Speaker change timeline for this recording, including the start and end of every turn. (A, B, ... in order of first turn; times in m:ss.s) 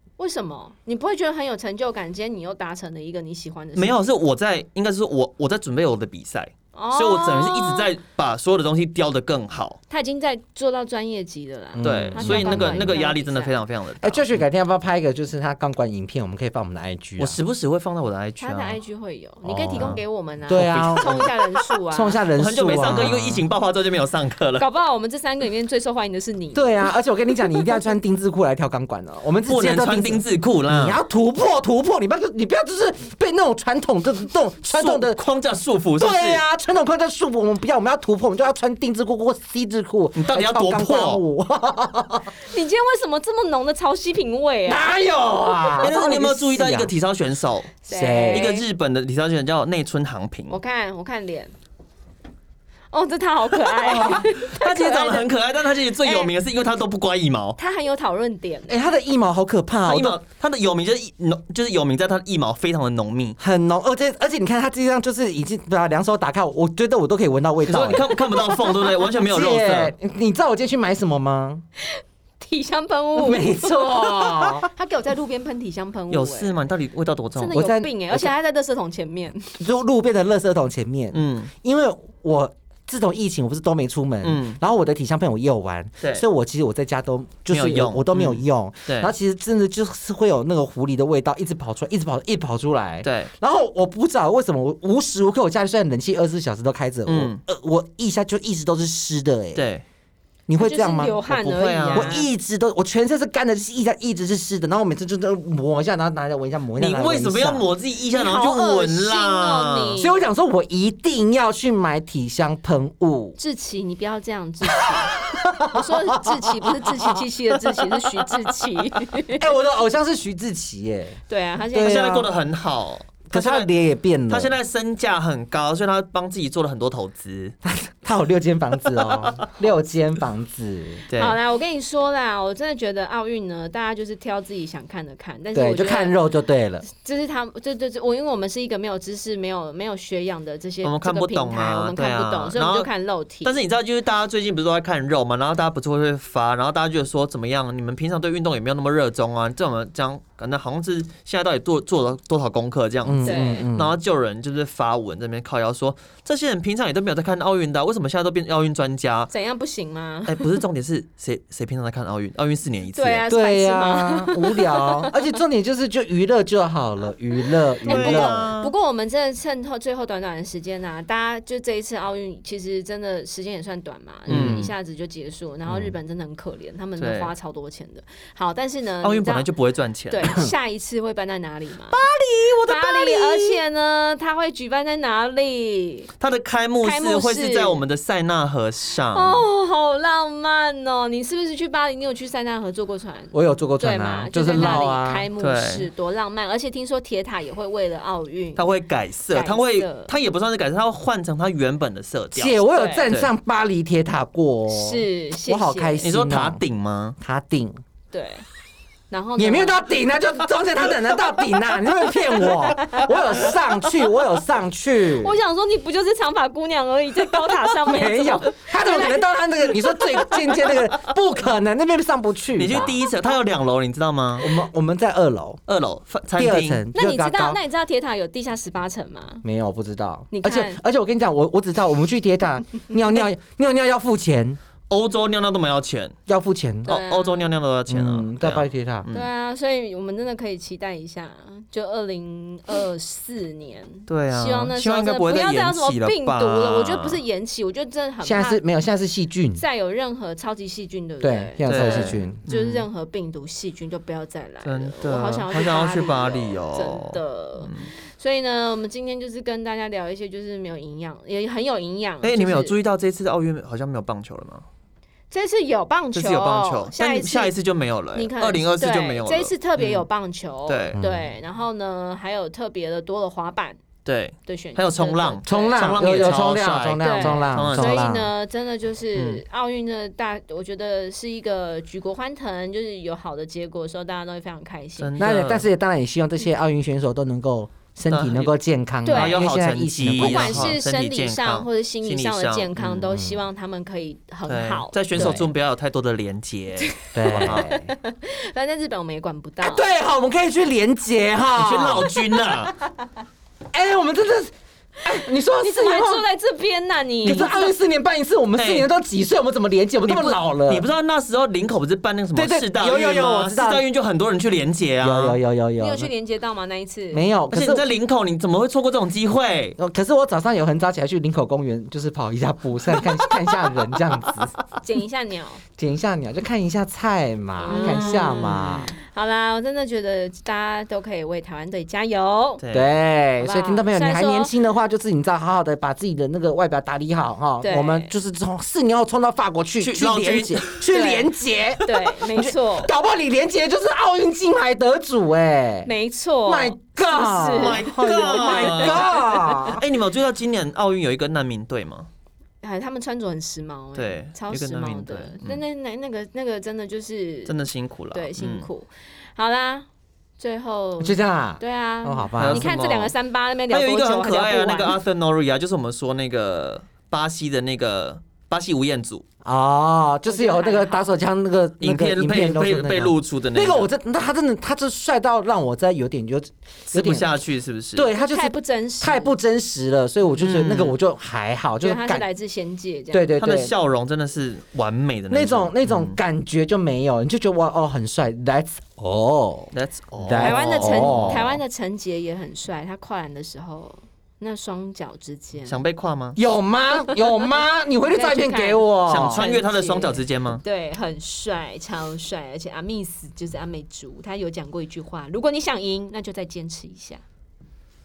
0:00.2-0:04.0 A
0:03.8-0:09.8 B
0:06.7-0:07.9 A
0:09.9-0:13.6 A
0:11.8-0:13.0 C
0:11.8-0:14.4 B
0:14.0-0:17.4 C
0:17.2-0:18.8 B
0:18.4-0:22.2 A
0:19.4-0:21.3 B
0:19.8-0:21.2 C
0:21.9-0:23.4 C
0:22.3-0:24.6 B
0:24.6-0:27.7 A
0:26.5-0:35.2 C
0:29.5-0:31.0 B
0:34.7-0:36.4 B
0:36.0-0:42.3 C
0:40.1-0:41.2 B
0:42.4-0:44.9 A
0:44.6-0:46.9 C
0:45.8-0:50.6 B
0:47.8-0:48.6 A
0:47.9-0:48.5 C
0:50.5-0:51.5 A
0:52.9-0:55.3 A
0:53.8-0:54.3 C
0:53.9-0:57.6 B
0:56.0-0:56.3 A
0:57.6-0:58.8 A
0:58.7-1:00.2 C
0:59.8-1:03.4 B
1:03.4-1:08.4 C
1:07.7-1:09.9 B
1:09.2-1:11.6 C
1:11.8-1:16.6 A
1:13.2-1:14.7 C
1:16.1-1:17.6 B
1:17.4-1:19.6 A
1:17.5-1:18.3 C
1:19.6-1:39.7 C
1:21.1-1:21.5 B
1:24.2-1:24.6 B
1:27.5-1:29.1 B
1:33.0-1:33.3 B
1:37.0-1:37.4 B
1:39.5-1:39.8 B
1:40.5-1:47.7 C
1:40.6-1:42.3 A
1:41.5-1:42.2 B
1:46.8-1:50.0 B
1:48.1-1:50.2 A
1:50.0-1:53.4 C
1:53.4-1:59.5 A
1:54.8-1:57.2 C
1:57.6-1:58.5 B
1:59.4-2:01.2 C
2:01.3-2:02.1 A
2:01.7-2:02.3 C
2:01.7-2:03.7 B
2:03.3-2:04.5 C
2:04.3-2:07.5 B
2:07.6-2:11.0 C
2:11.1-2:11.4 B
2:11.1-2:16.2 A
2:15.5-2:16.8 C
2:16.8-2:23.6 A
2:20.8-2:22.9 B
2:23.4-2:39.3 B
2:33.0-2:34.0 C
2:33.2-2:33.6 A
2:39.3-2:40.4 A
2:40.3-2:43.2 B
2:42.9-2:45.3 A
2:43.3-2:48.5 C
2:47.8-2:59.5 A
2:47.8-2:48.7 B
2:54.3-2:54.7 C
2:54.3-2:54.7 B
2:57.0-2:57.3 B
2:59.0-3:00.3 B
3:00.1-3:02.0 A
3:00.2-3:00.5 C
3:01.9-3:03.6 B
3:02.7-3:06.1 A
3:06.2-3:09.4 B
3:06.8-3:07.8 A
3:09.1-3:18.7 A
3:13.3-3:15.3 C
3:14.6-3:14.8 B
3:15.4-3:15.9 B
3:18.6-3:23.3 B
3:19.3-3:20.1 A
3:22.3-3:26.6 C
3:22.7-3:23.1 A
3:24.7-3:26.1 A
3:26.0-3:27.2 B
3:27.2-3:27.8 C
3:28.1-3:28.4 A
3:29.1-3:29.8 A
3:29.4-3:35.4 C
3:32.4-3:33.5 A
3:35.0-3:40.7 A
3:37.8-3:43.0 C
3:42.6-3:44.6 B
3:44.4-3:45.6 C
3:45.7-3:46.8 B
3:46.3-3:47.6 C
3:46.9-3:49.4 A
3:49.4-3:54.6 C
3:50.3-3:50.8 A
3:54.9-3:56.1 B
3:56.3-3:56.9 C
3:56.8-3:59.3 B
3:56.8-3:57.5 A
3:57.9-3:59.1 C
3:59.1-4:08.6 A
4:04.1-4:07.2 B
4:08.2-4:09.6 C
4:09.6-4:22.8 A
4:11.2-4:12.4 C
4:11.6-4:12.9 B
4:14.6-4:17.9 B
4:22.2-4:24.6 B
4:25.3-4:27.5 A
4:26.1-4:30.0 B
4:28.1-4:33.8 A
4:30.7-4:31.0 B
4:31.0-4:31.3 C
4:34.0-4:38.0 B
4:34.4-4:36.2 A
4:35.4-4:38.3 C
4:37.0-4:45.2 A
4:39.1-4:39.4 B
4:45.0-4:45.7 B
4:45.2-4:50.8 C
4:48.1-4:48.5 B
4:49.0-4:49.4 A
4:49.1-4:53.0 B
4:50.2-4:55.5 A
4:53.1-4:53.4 C
4:54.5-4:57.6 B
4:55.1-4:55.4 C
4:57.0-4:59.9 A
4:57.1-4:57.9 C
4:59.6-5:02.1 C
5:01.5-5:02.7 B
5:03.7-5:04.5 C
5:05.0-5:06.2 C
5:05.5-5:07.7 A
5:07.2-5:10.9 C
5:08.6-5:08.9 B
5:10.0-5:15.4 B
5:12.3-5:13.9 C
5:15.0-5:16.1 C
5:15.8-5:17.2 A
5:17.1-5:17.8 C
5:17.5-5:19.8 B
5:19.8-5:24.6 C
5:24.8-5:25.6 A
5:25.8-5:28.9 C
5:27.6-5:32.6 A
5:27.7-5:28.9 B
5:32.6-5:32.9 B
5:32.7-5:45.9 C
5:33.4-5:34.5 A
5:37.6-5:38.1 A
5:39.8-5:40.8 B
5:40.9-5:41.3 A
5:41.8-5:42.9 A
5:45.8-5:49.6 A
5:46.4-5:49.8 C
5:47.5-5:49.1 B
5:49.7-5:52.1 B
5:52.6-5:57.6 A
5:54.0-5:55.6 B
5:57.4-5:58.7 B
5:58.1-5:59.9 A
6:00.4-6:05.0 A
6:01.0-6:02.7 C
6:02.4-6:03.1 B
6:03.7-6:09.2 B
6:09.4-6:17.4 C
6:10.2-6:11.1 A
6:11.8-6:13.9 B
6:16.9-6:18.1 B
6:17.9-6:22.3 C
6:18.2-6:19.3 A
6:20.3-6:21.0 B
6:21.8-6:23.3 A
6:23.1-6:23.7 C
6:23.4-6:26.2 B
6:25.3-6:31.4 C
6:29.7-6:31.6 B
6:30.4-6:35.8 A
6:35.6-6:36.4 B
6:36.4-6:39.4 C
6:38.0-6:47.2 A
6:39.0-6:40.6 B